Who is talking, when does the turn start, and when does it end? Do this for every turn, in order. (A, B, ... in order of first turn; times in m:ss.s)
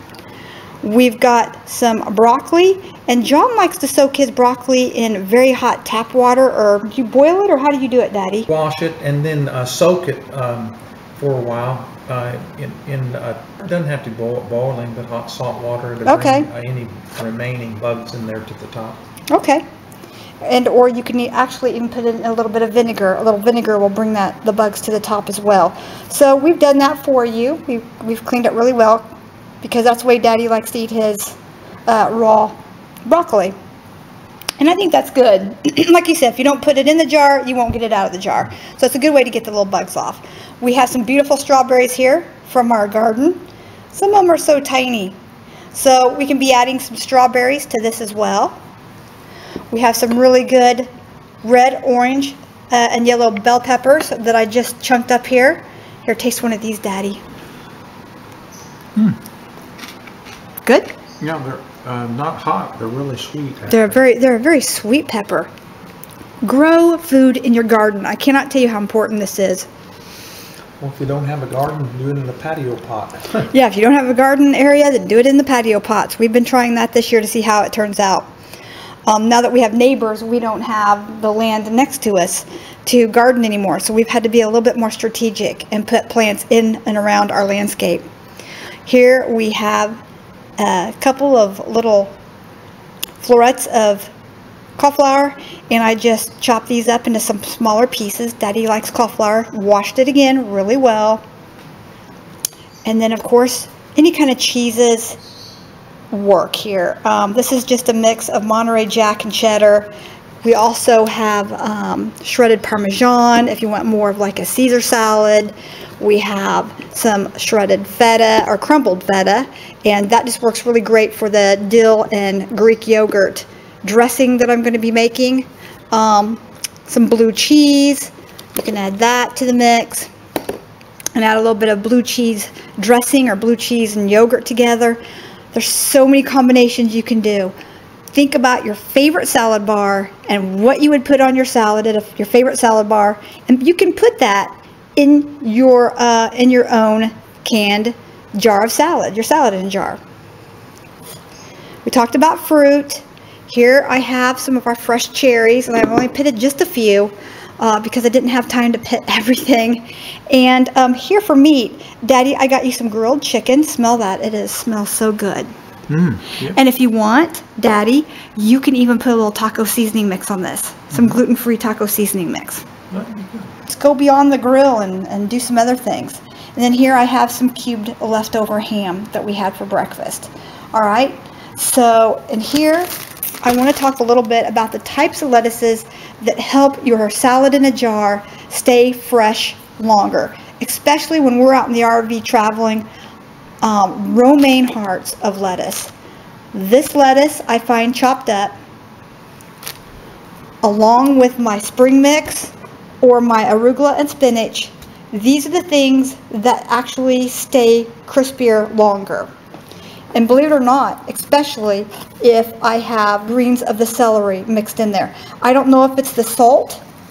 0:00.8-0:08.5 A
0:08.5-0:19.0 B
0:16.0-0:16.5 A
0:19.3-0:19.6 A
0:20.4-0:33.5 A
0:34.6-0:45.2 A
0:45.7-0:48.6 A
0:49.7-0:50.9 A
0:51.4-0:57.2 A
1:00.6-1:00.9 A
1:01.2-1:03.9 B
1:03.7-1:05.5 A
1:06.4-1:09.7 A
1:10.8-1:13.5 B
1:13.5-1:18.3 A
1:19.0-1:28.1 A
1:28.8-1:30.0 A
1:30.6-1:32.2 A
1:33.2-1:34.1 A
1:34.8-1:41.2 A
1:42.8-1:45.2 A
1:46.1-1:49.9 A
1:50.4-2:10.1 A
2:11.1-2:15.0 A
2:15.5-2:17.5 A
2:18.1-2:30.0 A
2:31.8-2:45.5 A
2:45.9-2:46.6 B
2:46.4-2:52.7 A
2:52.9-2:53.5 B
2:53.7-3:02.9 A
3:03.4-3:12.9 A
3:13.6-3:15.9 A
3:16.5-3:18.6 A
3:20.6-3:29.3 A
3:30.1-3:36.8 A